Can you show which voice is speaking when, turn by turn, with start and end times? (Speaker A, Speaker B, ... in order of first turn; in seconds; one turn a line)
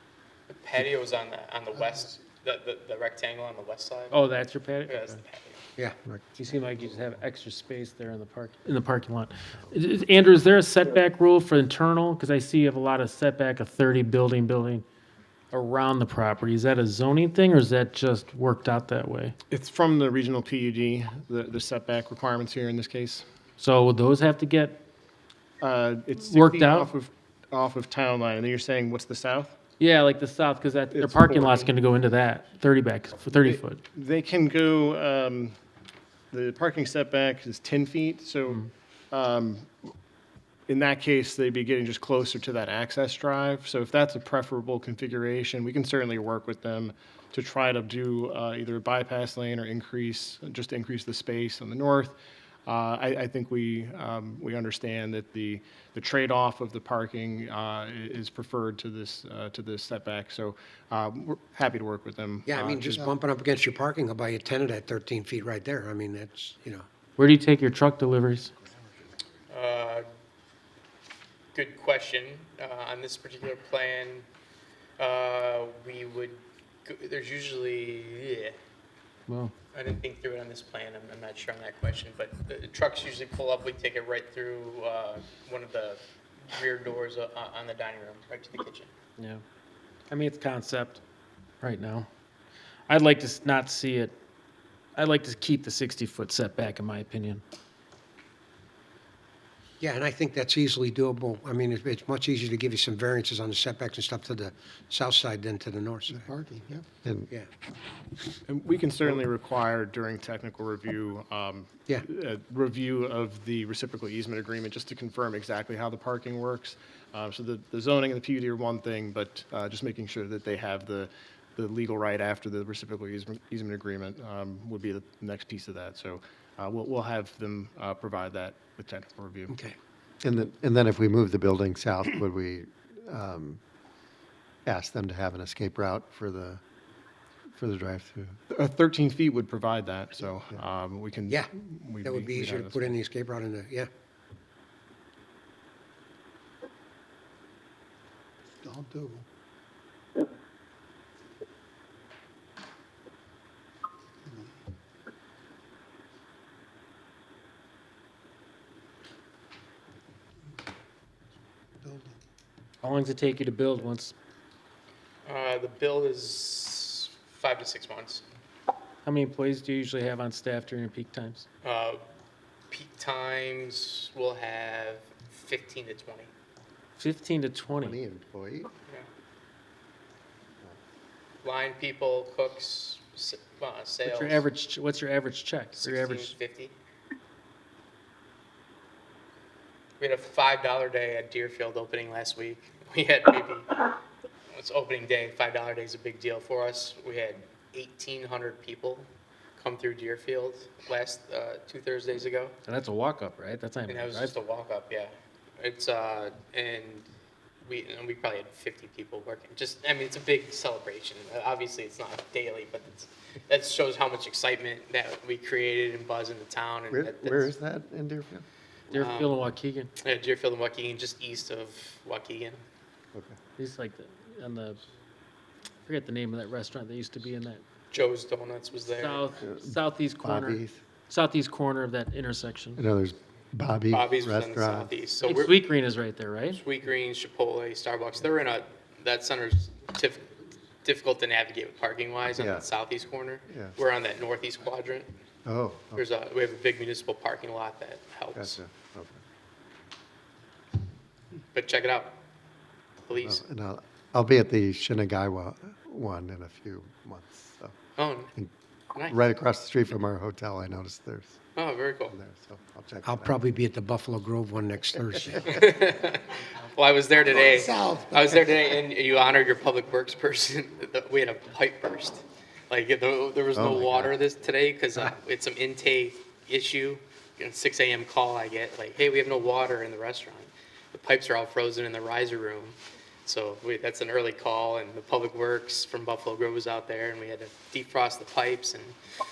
Speaker A: 0.5-4.2
Speaker B: 4.1-5.2
Speaker A: 4.9-5.6
Speaker B: 6.3-14.8
Speaker B: 15.5-19.4
Speaker C: 19.5-23.3
Speaker B: 23.6-24.8
Speaker C: 25.6-29.6
Speaker B: 26.2-26.9
Speaker B: 29.8-33.8
Speaker C: 30.9-31.7
Speaker C: 33.4-35.5
Speaker C: 36.3-38.6
Speaker C: 39.1-39.9
Speaker C: 40.7-63.0
Speaker D: 62.5-66.9
Speaker B: 67.2-68.5
Speaker A: 69.5-70.1
Speaker A: 71.5-74.2
Speaker A: 75.0-78.5
Speaker B: 79.3-79.5
Speaker A: 79.7-88.9
Speaker B: 89.2-89.4
Speaker B: 90.1-91.0
Speaker B: 91.6-92.1
Speaker B: 92.9-94.2
Speaker B: 95.0-97.4
Speaker D: 99.8-106.3
Speaker E: 106.2-107.3
Speaker C: 108.5-129.6
Speaker D: 129.5-129.8
Speaker E: 130.2-133.6
Speaker E: 134.7-136.6
Speaker E: 137.6-138.3
Speaker C: 138.5-143.0
Speaker D: 142.0-143.9
Speaker B: 162.8-164.1
Speaker A: 165.3-168.2
Speaker B: 169.1-171.4
Speaker A: 171.6-172.0
Speaker A: 172.7-176.3
Speaker B: 177.0-178.0
Speaker E: 177.8-178.7
Speaker A: 181.4-184.4
Speaker B: 184.0-186.4
Speaker A: 185.8-186.7
Speaker A: 190.0-193.9
Speaker A: 194.5-202.5
Speaker B: 202.7-204.4
Speaker A: 203.9-207.1
Speaker A: 207.7-217.5
Speaker E: 216.9-218.4
Speaker A: 218.9-219.3
Speaker B: 218.9-219.9
Speaker A: 220.0-222.6
Speaker B: 223.6-224.8
Speaker B: 225.8-227.6
Speaker A: 227.9-229.3
Speaker B: 228.9-232.8
Speaker E: 229.4-230.8
Speaker E: 232.8-234.9
Speaker A: 233.9-235.6
Speaker B: 235.2-236.6
Speaker A: 236.5-240.3
Speaker A: 240.8-245.1
Speaker E: 242.4-242.7
Speaker E: 243.5-243.8
Speaker E: 245.4-246.0
Speaker A: 245.9-248.6
Speaker E: 248.3-249.2
Speaker A: 251.5-252.2
Speaker A: 253.1-253.4
Speaker E: 253.2-257.8
Speaker A: 258.0-258.3
Speaker E: 259.1-261.4
Speaker A: 261.6-262.2
Speaker E: 262.1-263.4
Speaker D: 263.0-265.7
Speaker A: 265.5-289.0
Speaker D: 267.4-268.4
Speaker E: 273.6-274.2